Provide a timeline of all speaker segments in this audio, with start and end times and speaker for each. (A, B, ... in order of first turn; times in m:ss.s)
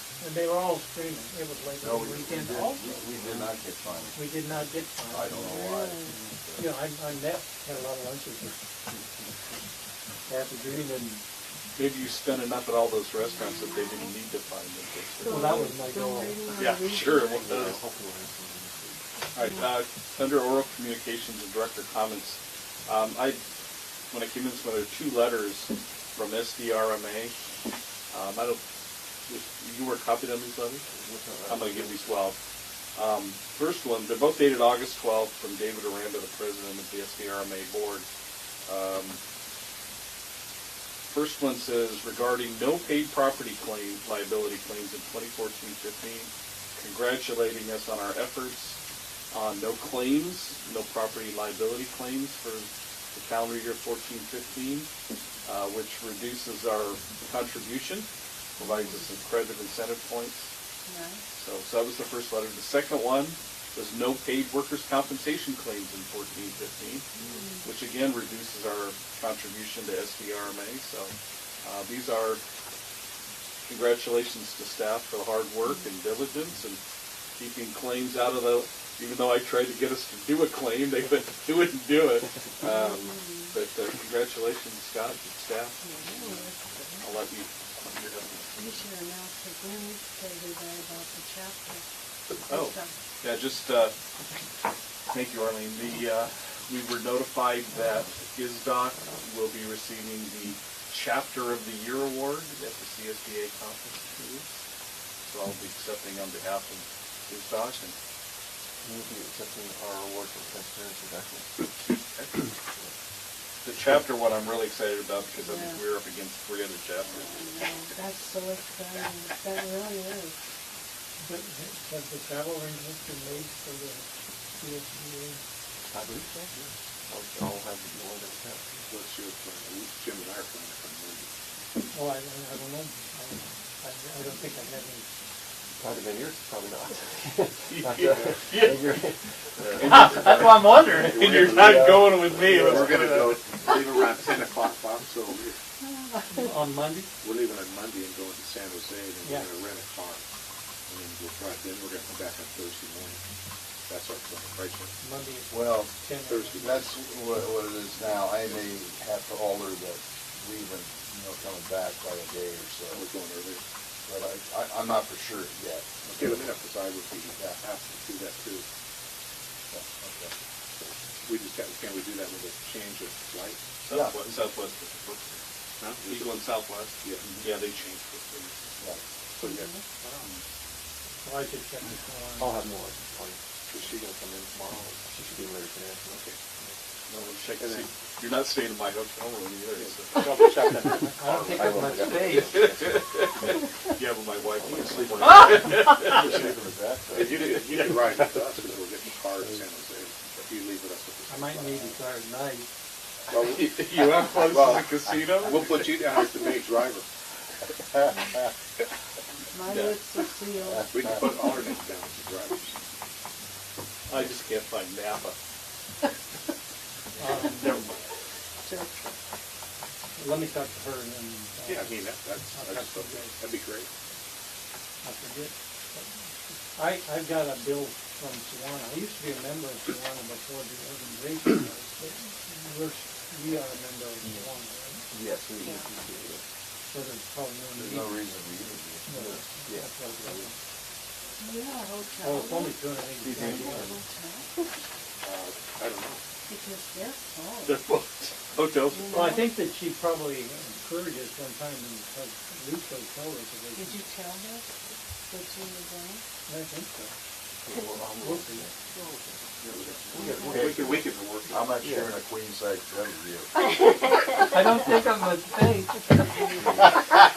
0:00.2-0:03.1 A
0:01.8-0:04.3 B
0:04.1-0:05.7 A
0:05.1-0:06.7 B
0:05.5-0:06.2 C
0:06.6-0:08.6 A
0:10.3-0:11.2 A
0:11.8-0:15.6 D
0:13.4-0:14.2 C
0:15.2-0:17.5 C
0:15.3-0:16.4 A
0:16.6-0:17.8 D
0:17.0-0:19.0 E
0:19.3-0:23.4 D
0:24.1-0:27.3 D
0:28.1-0:28.6 D
0:29.3-0:30.9 D
0:30.9-0:32.0 E
0:31.5-0:32.4 D
0:33.0-0:38.1 D
0:38.7-0:39.2 D
0:41.1-0:48.8 D
0:49.3-0:54.9 D
0:55.4-1:00.5 D
0:58.6-0:59.0 C
1:00.9-1:01.2 C
1:01.4-1:07.1 D
1:07.2-1:07.7 C
1:07.6-1:12.4 D
1:13.6-1:16.8 D
1:17.4-1:25.8 D
1:22.6-1:23.5 C
1:25.8-1:27.1 C
1:27.0-1:28.7 D
1:28.5-1:31.8 C
1:32.4-1:33.0 C
1:32.5-1:33.9 D
1:35.1-1:44.6 D
1:45.2-1:48.0 D
1:48.8-1:51.7 E
1:53.6-1:57.6 D
1:55.4-1:55.8 C
1:57.3-2:00.4 C
2:01.2-2:05.4 A
2:05.8-2:06.5 E
2:07.1-2:08.9 E
2:08.9-2:11.3 F
2:11.9-2:15.1 A
2:15.8-2:20.5 E
2:17.7-2:18.9 D
2:19.7-2:23.2 D
2:19.9-2:21.1 A
2:21.1-2:23.0 B
2:22.6-2:25.6 F
2:26.3-2:27.1 A
2:27.2-2:30.2 F
2:30.9-2:33.2 F
2:33.9-2:34.9 F
2:35.0-2:36.7 A
2:35.5-2:35.9 B
2:36.2-2:37.0 F
2:36.6-2:43.0 B
2:42.9-2:43.6 F
2:44.1-2:46.5 B
2:46.1-2:48.6 F
2:49.7-2:50.3 B
2:50.7-2:53.8 F
2:53.8-2:55.4 D
2:53.9-2:54.3 B
2:55.8-2:56.4 F
2:56.0-2:58.8 D
2:57.0-2:57.9 F
2:59.4-2:59.8 C
2:59.4-3:00.4 F
3:01.2-3:02.6 A
3:02.4-3:06.3 E
3:06.2-3:06.8 F
3:07.1-3:10.6 D
3:07.6-3:07.9 F
3:09.8-3:11.9 F
3:11.2-3:12.6 A
3:11.5-3:13.0 E
3:12.6-3:16.5 D
3:14.8-3:17.9 B
3:17.1-3:21.9 F
3:21.3-3:22.7 A
3:23.3-3:27.1 F
3:23.4-3:25.8 D
3:28.1-3:28.4 C
3:29.5-3:31.2 C
3:29.7-3:30.0 D
3:30.9-3:32.8 F
3:34.1-3:35.4 D
3:37.2-3:37.8 A
3:37.4-3:37.9 D
3:38.6-3:39.2 C
3:40.2-3:42.0 A
3:41.6-3:43.9 F
3:42.5-3:43.4 A
3:45.0-3:55.1 A
3:54.2-3:54.5 E
3:55.1-3:56.4 E
3:56.9-3:58.2 A
3:57.7-3:59.1 B
3:59.1-4:00.5 A
3:59.1-4:00.5 E
4:01.4-4:04.7 C
4:02.2-4:03.9 A
4:03.2-4:03.9 E
4:05.2-4:06.2 F
4:06.5-4:07.9 C
4:07.6-4:09.4 D
4:08.9-4:09.5 C
4:09.1-4:14.0 A
4:13.7-4:16.2 C
4:16.5-4:16.9 A
4:17.6-4:22.2 E
4:18.2-4:18.7 A
4:19.6-4:21.7 F
4:20.2-4:20.6 C
4:20.5-4:20.9 B
4:21.5-4:23.6 B
4:24.5-4:26.3 A
4:26.3-4:27.0 C